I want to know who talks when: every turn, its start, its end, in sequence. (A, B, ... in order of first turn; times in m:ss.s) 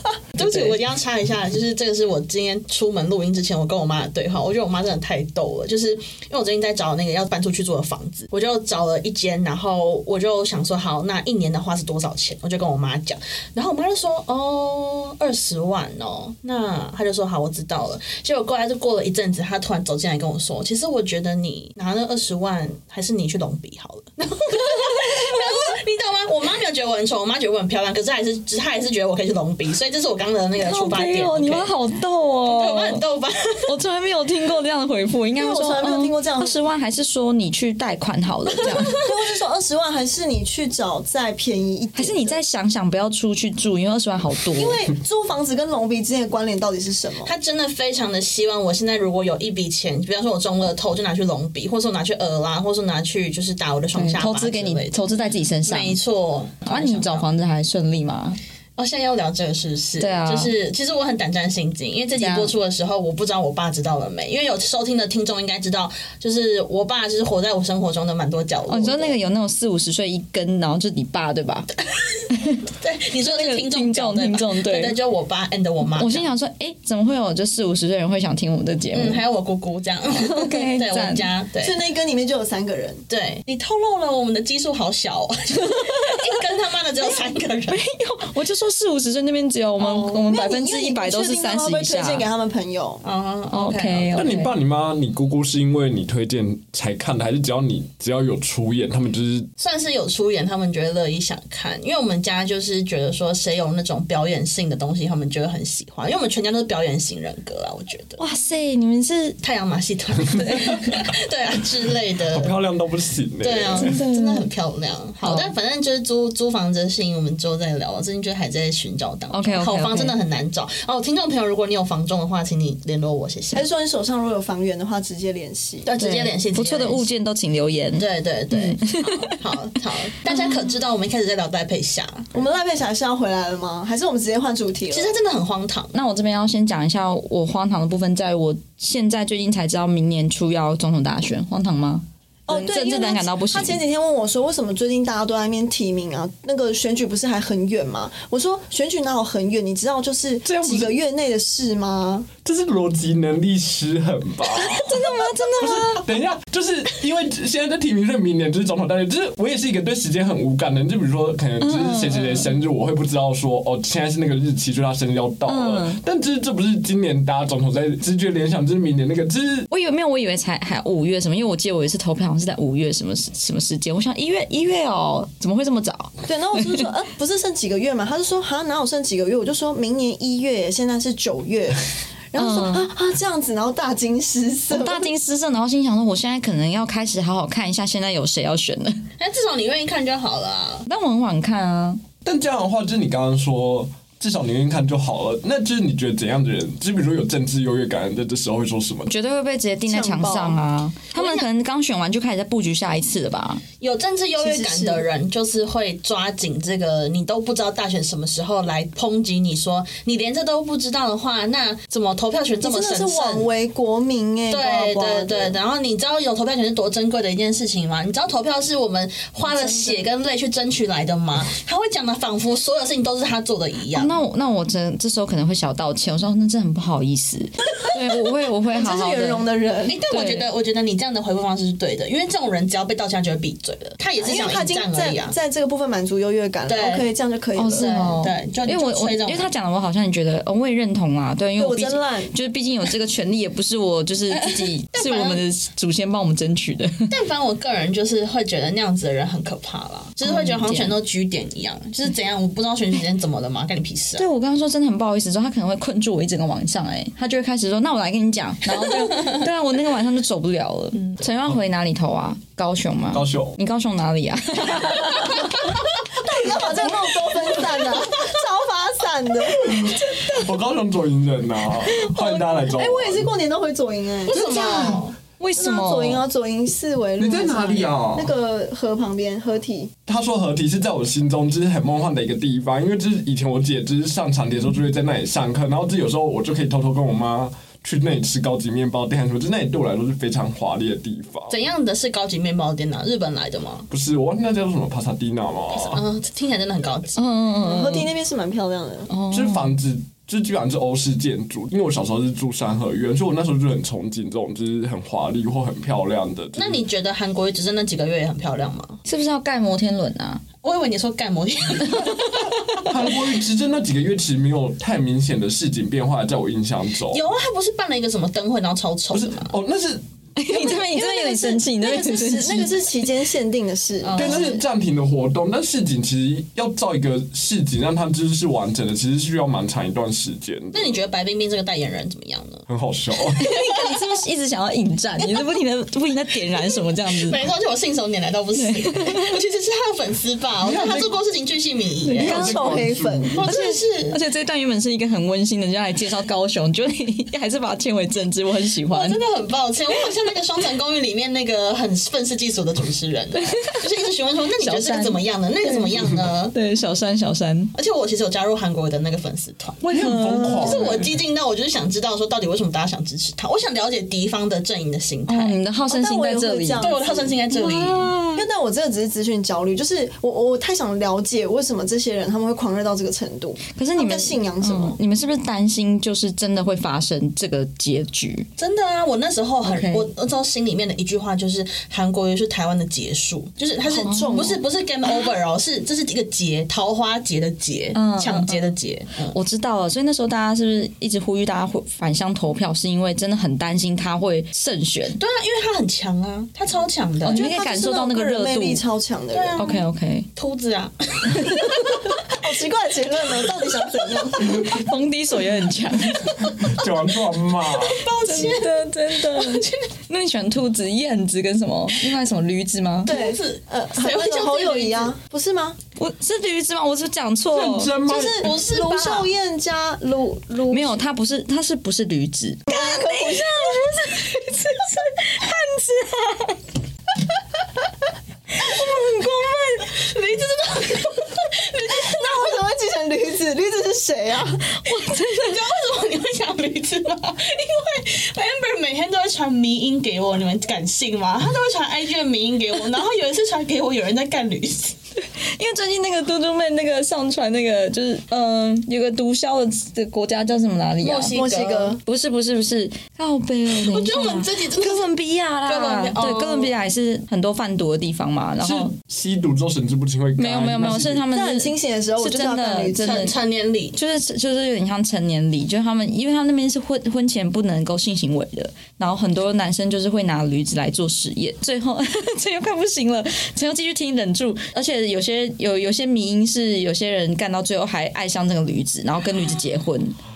0:00.3-0:31.7 A
0:00.4-0:00.8 B
0:24.6-0:25.5 B
0:30.6-0:33.0 B
0:32.5-0:33.7 A
0:33.7-0:38.9 B
0:35.4-0:36.6 C
0:38.6-0:38.9 A
0:38.9-0:42.4 C
0:42.0-0:44.8 B
0:44.6-0:47.3 C
0:47.2-0:54.9 A
0:53.9-0:56.0 B
0:55.7-0:57.3 A
0:56.6-0:58.4 B
0:58.8-1:09.2 A
1:00.0-1:00.5 B
1:02.2-1:02.5 B
1:08.7-1:11.7 B
1:12.3-1:12.6 B
1:12.7-1:16.3 A
1:13.2-1:15.0 B
1:15.9-1:19.2 B
1:18.9-1:21.8 A
1:20.1-1:21.2 B
1:21.6-1:23.0 C
1:23.1-1:27.8 A
1:25.6-1:26.2 B
1:27.7-1:32.3 B
1:29.8-1:30.2 A
1:29.9-1:33.0 C
1:33.0-1:34.2 A
1:33.5-1:34.5 B
1:34.1-1:39.5 D
1:39.6-1:48.2 A
1:48.2-1:49.4 B
1:49.4-1:52.5 A
1:50.3-1:50.8 B
1:52.3-1:53.9 D
1:53.4-2:03.7 A
1:53.8-1:54.5 B
1:55.2-1:55.5 B
1:59.3-2:00.2 B
2:03.5-2:05.9 C
2:05.8-2:07.1 A
2:06.0-2:09.4 B
2:08.0-2:12.3 A
2:10.2-2:10.6 B
2:12.3-2:15.1 C
2:14.9-2:15.9 A
2:15.9-2:23.8 B
2:22.5-2:32.3 C
2:30.4-2:30.9 D
2:32.4-2:34.8 D
2:34.5-2:36.0 B
2:35.6-2:49.7 D
2:41.6-2:42.5 B
2:45.5-2:46.0 B
2:49.7-2:56.8 B
2:56.2-3:05.1 C
3:02.3-3:02.9 B
3:04.7-3:09.0 B
3:09.2-3:10.8 A
3:10.8-3:12.0 B
3:12.2-3:19.1 D
3:19.1-3:23.6 B
3:19.9-3:20.6 C
3:21.1-3:21.4 A
3:23.8-3:33.5 A
3:24.4-3:25.0 C
3:32.6-3:35.5 C
3:34.5-3:44.2 A
3:39.4-3:40.1 C
3:43.9-3:49.4 B
3:48.7-3:50.0 C
3:49.8-3:55.4 A
3:50.1-3:50.5 B
3:54.2-3:58.2 C
3:56.7-3:57.1 A
3:57.6-4:07.1 B
3:57.8-3:59.5 A
4:01.6-4:02.3 C
4:04.3-4:05.4 A
4:07.1-4:14.2 A
4:10.2-4:11.0 B
4:14.2-4:25.7 B
4:23.1-4:23.6 D
4:26.2-4:29.7 C
4:29.6-4:33.3 D
4:32.0-4:35.0 C
4:34.3-4:35.2 A
4:34.5-4:36.2 B
4:35.6-4:39.9 C
4:37.2-4:38.3 D
4:40.1-4:51.5 D
4:51.5-4:53.9 A
4:53.9-4:56.0 D
4:55.7-4:57.2 A
4:57.2-4:58.1 B
4:57.6-4:59.1 C
4:59.1-4:59.7 B
4:59.3-5:06.8 D
5:06.6-5:09.0 A
5:09.0-5:10.4 B
5:10.6-5:12.4 A
5:11.9-5:12.9 B
5:12.8-5:17.2 D
5:17.1-5:19.5 A
5:19.1-5:20.0 D
5:20.4-5:23.2 B
5:20.5-5:24.6 C
5:24.0-5:24.6 A
5:24.1-5:30.9 D
5:30.7-5:32.6 A
5:32.7-5:33.5 D
5:33.4-5:33.8 A
5:33.4-5:37.4 B
5:37.1-5:42.5 A
5:38.5-5:39.4 B
5:40.6-5:41.1 D
5:42.0-5:42.8 B
5:42.1-5:43.4 C
5:42.2-5:43.4 D
5:43.3-5:44.2 A
5:43.3-5:49.2 B
5:48.9-5:56.5 A
5:53.4-5:53.9 B
5:54.6-5:57.7 B
5:57.7-5:59.8 A
5:59.8-6:01.2 D
5:59.9-6:00.8 B
6:00.6-6:05.6 A
6:05.3-6:06.9 B
6:05.9-6:07.4 C
6:06.8-6:08.1 A
6:07.5-6:08.5 B
6:08.3-6:15.0 C
6:13.7-6:18.5 B
6:18.6-6:29.4 A
6:19.6-6:20.1 B
6:23.8-6:24.6 C
6:24.0-6:24.6 B
6:27.9-6:28.6 B
6:29.3-6:35.2 B
6:35.2-6:37.4 A
6:37.2-6:38.8 B
6:37.2-6:39.7 C
6:39.3-6:39.8 A
6:39.6-6:40.3 B
6:40.3-6:41.8 A
6:41.3-6:42.0 B
6:42.0-6:44.8 C
6:44.4-6:46.8 B
6:46.6-6:48.0 D
6:47.7-6:49.8 A
6:48.2-6:53.1 B
6:53.0-6:55.1 A
6:53.0-6:55.8 C
6:56.0-6:58.0 B
6:57.5-6:58.4 D
6:58.0-7:01.0 C
6:58.4-6:59.3 A
7:00.7-7:06.6 B
7:02.7-7:04.3 C
7:08.5-7:09.9 B
7:09.8-7:12.5 A
7:12.0-7:14.7 C
7:14.7-7:15.8 B
7:15.2-7:25.0 A
7:25.2-7:31.3 B
7:31.0-7:32.0 A
7:31.3-7:32.0 C
7:32.0-7:38.9 B
7:33.8-7:35.1 A
7:35.6-7:36.7 A
7:38.6-7:41.2 D
7:40.4-7:43.3 B
7:41.3-7:43.3 C
7:43.0-7:44.0 A
7:43.9-8:00.2 B